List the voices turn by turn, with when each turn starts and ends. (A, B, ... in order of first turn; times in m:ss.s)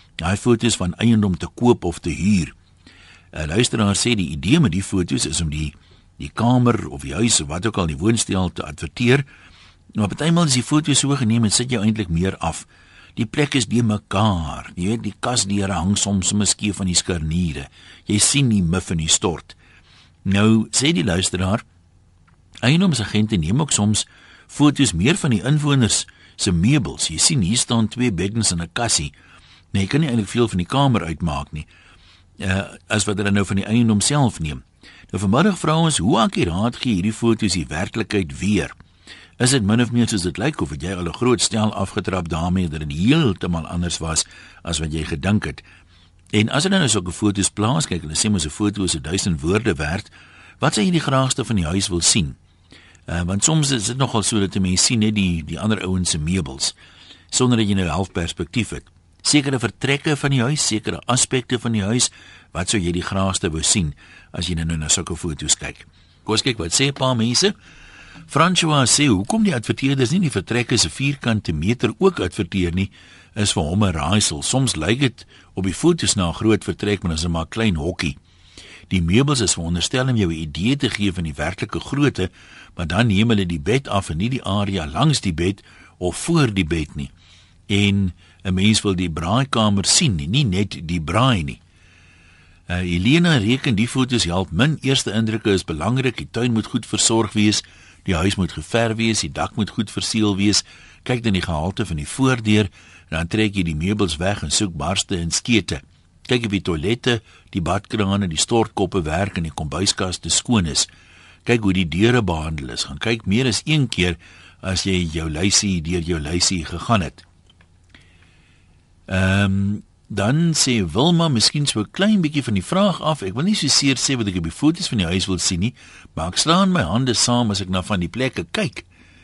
0:00.2-0:02.5 A
0:03.3-0:09.3 A
0:10.0-0:19.6 A
0:20.2-0:21.6 A
0:22.6-0:29.1 A
0:29.7-0:31.7 A
0:32.4-0:38.7 A
0:39.4-0:45.6 A
0:46.3-0:52.4 A
0:53.1-0:56.8 A
0:57.3-1:07.6 A
1:08.3-1:18.2 A
1:18.9-1:27.1 A
1:27.7-1:31.6 A
1:32.7-1:50.9 A
1:51.5-1:57.2 A
1:59.1-2:08.9 A